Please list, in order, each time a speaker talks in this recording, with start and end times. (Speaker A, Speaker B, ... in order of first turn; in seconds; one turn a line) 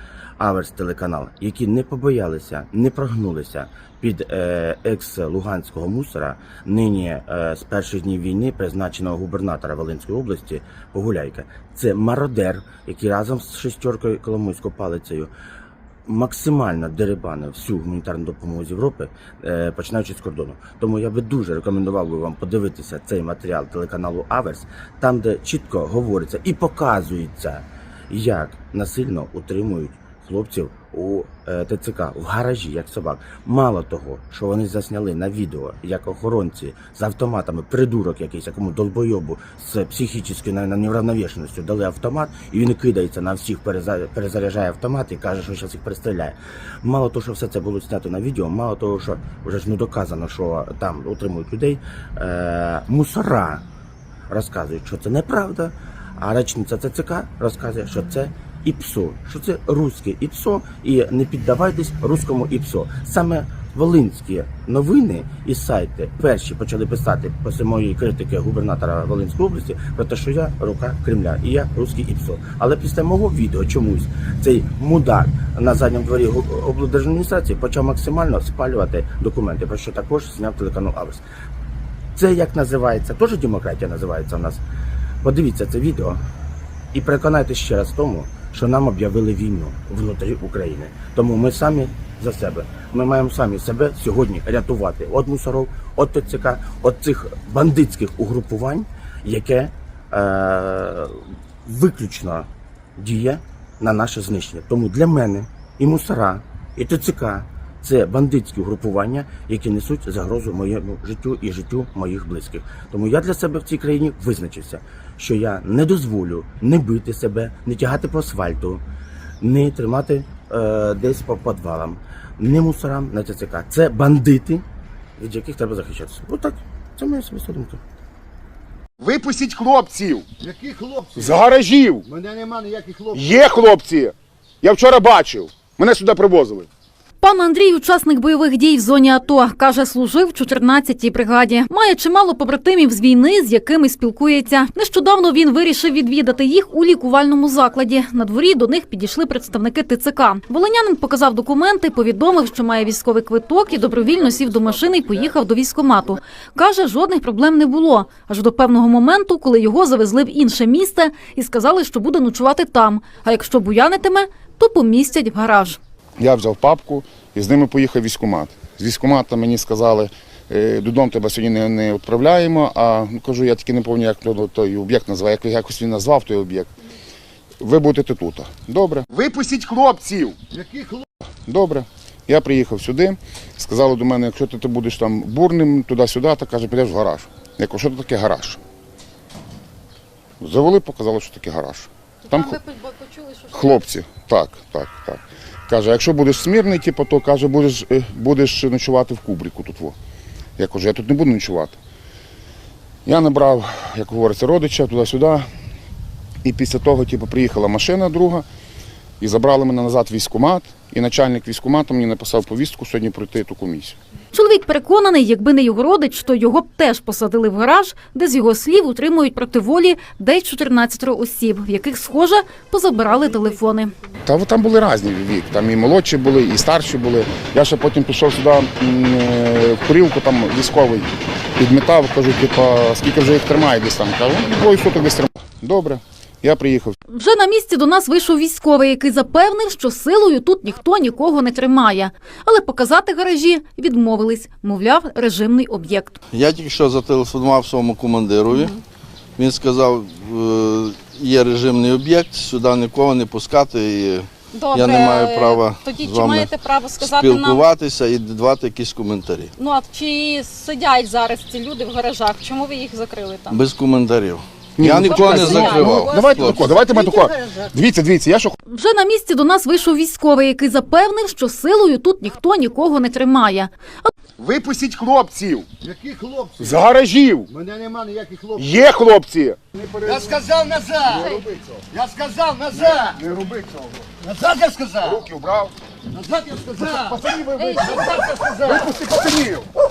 Speaker A: 0.4-15.3
Speaker A: 16.1-53.6
Speaker A: 54.3-81.2
Speaker A: 82.2-84.6
Speaker A: 85.2-86.2
Speaker A: 86.9-118.8
Speaker A: 119.4-124.6
Speaker A: 125.2-127.8
Speaker B: 129.0-130.2
Speaker C: 130.4-131.4
Speaker B: 131.2-132.1
Speaker C: 132.1-133.4
Speaker B: 133.1-136.7
Speaker D: 137.2-165.8
Speaker B: 166.2-176.7
Speaker B: 177.6-180.3
Speaker C: 180.5-181.0
Speaker B: 181.5-188.6
Speaker B: 190.4-192.6
Speaker E: 192.5-193.5
Speaker B: 193.5-199.9
Speaker B: 200.6-201.8
Speaker B: 203.0-205.4
Speaker B: 206.4-208.4
Speaker B: 209.2-213.9
Speaker D: 214.3-223.9
Speaker B: 224.2-236.9
Speaker D: 237.1-246.2
Speaker F: 246.3-248.7
Speaker E: 248.5-248.8
Speaker F: 249.4-259.5
Speaker E: 254.5-257.7
Speaker E: 259.6-263.6
Speaker F: 263.5-266.6
Speaker B: 264.8-268.6
Speaker E: 265.1-267.2
Speaker D: 268.7-274.1
Speaker B: 274.4-275.7
Speaker C: 275.8-276.7
Speaker B: 276.6-277.5
Speaker C: 277.5-278.6
Speaker B: 278.6-280.3
Speaker C: 279.9-281.4
Speaker B: 281.1-281.8
Speaker C: 281.9-283.1
Speaker B: 282.7-284.0
Speaker C: 284.2-285.2
Speaker B: 285.0-285.7
Speaker C: 286.1-287.1
Speaker B: 286.8-289.7
Speaker C: 287.9-288.9